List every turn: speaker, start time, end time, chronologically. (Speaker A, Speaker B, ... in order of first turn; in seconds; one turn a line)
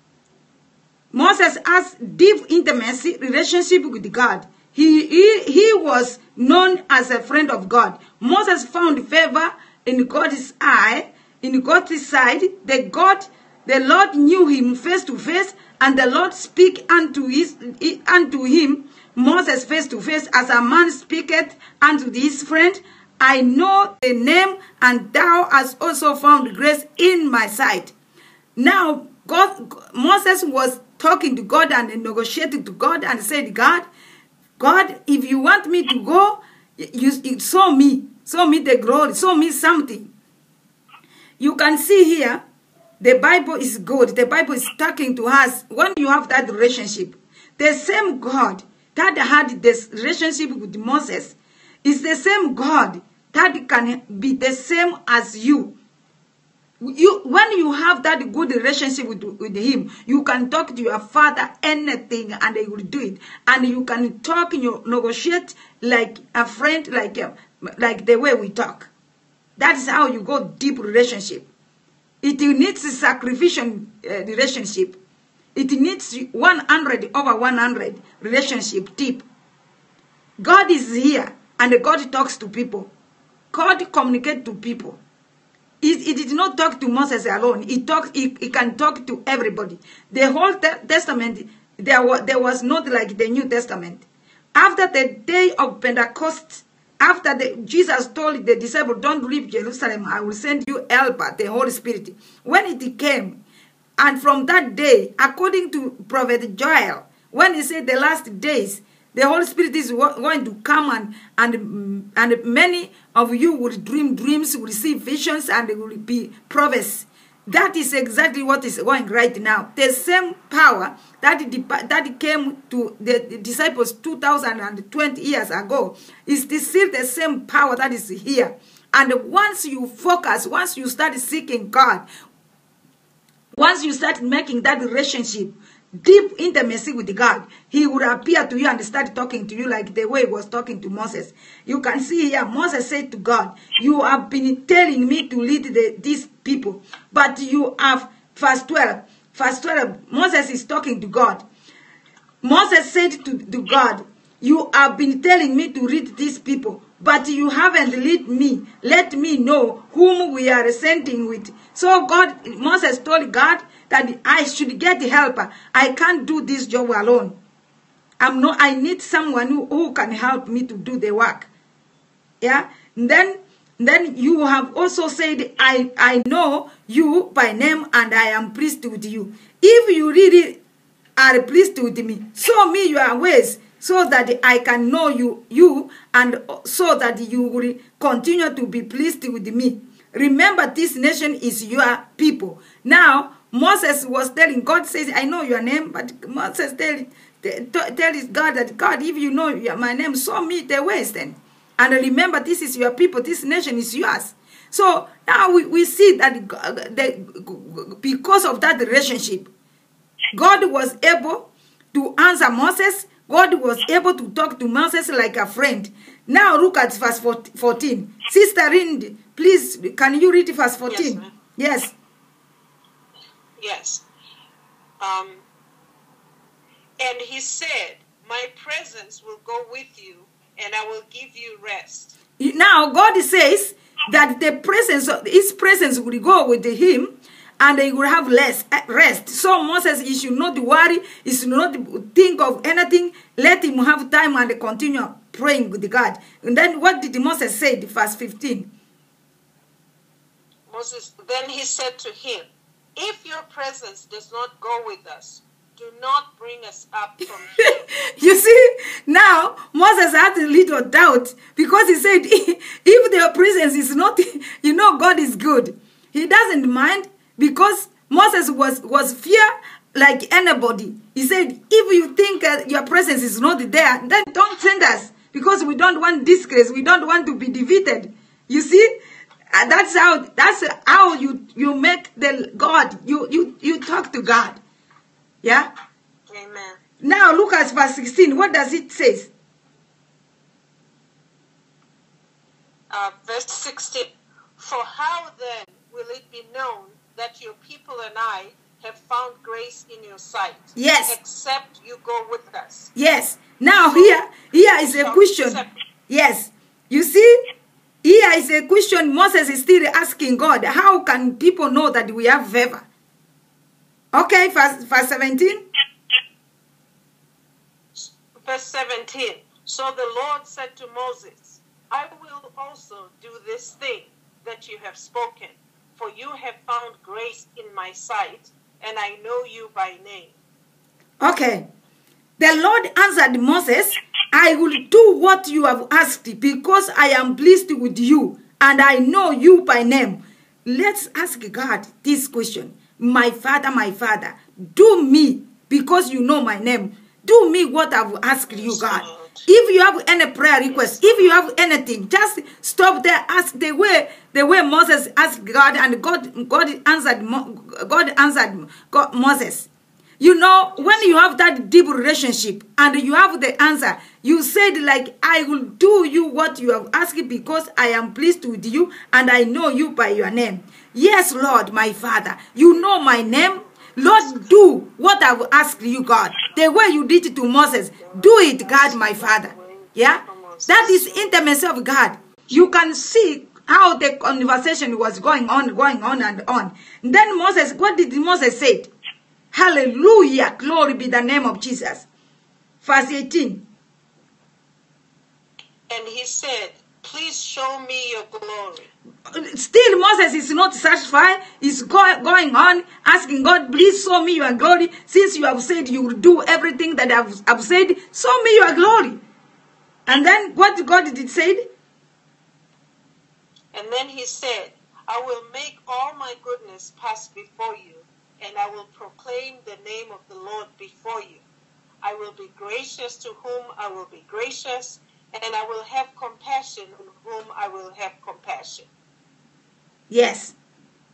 Speaker A: 1.1-27.9
Speaker A: 28.6-33.9
Speaker A: 34.6-40.1
Speaker A: 41.4-42.4
Speaker A: 43.0-55.8
Speaker A: 56.8-68.9
Speaker A: 69.6-71.5
Speaker A: 72.2-75.0
Speaker A: 75.5-79.2
Speaker A: 80.4-82.9
Speaker A: 83.5-85.0
Speaker A: 85.8-94.0
Speaker A: 94.5-103.4
Speaker A: 104.0-132.0
Speaker A: 133.5-151.4
Speaker A: 152.4-167.3
Speaker A: 168.2-171.5
Speaker A: 172.4-180.6
Speaker A: 181.2-209.5
Speaker A: 210.3-221.9
Speaker B: 220.9-221.3
Speaker B: 223.6-224.0
Speaker B: 225.0-225.4
Speaker B: 227.0-232.2
Speaker A: 232.4-248.7
Speaker B: 250.7-257.8
Speaker A: 257.6-278.9
Speaker A: 279.5-284.6
Speaker A: 285.4-285.7
Speaker B: 286.3-286.8
Speaker A: 287.0-289.3
Speaker B: 292.9-302.9
Speaker A: 300.8-301.2
Speaker A: 302.9-307.4
Speaker B: 303.7-305.8
Speaker A: 308.0-312.9
Speaker A: 314.1-315.6
Speaker B: 317.9-330.3
Speaker A: 331.2-331.6
Speaker A: 332.4-359.7
Speaker B: 348.5-349.5
Speaker B: 350.7-351.0
Speaker A: 360.2-388.9
Speaker B: 360.7-361.3
Speaker B: 378.0-381.3
Speaker A: 389.5-392.1
Speaker A: 392.8-393.6
Speaker B: 395.9-398.9
Speaker A: 399.3-409.2
Speaker A: 410.1-411.7
Speaker B: 413.7-421.4
Speaker B: 422.0-428.9
Speaker A: 430.1-430.5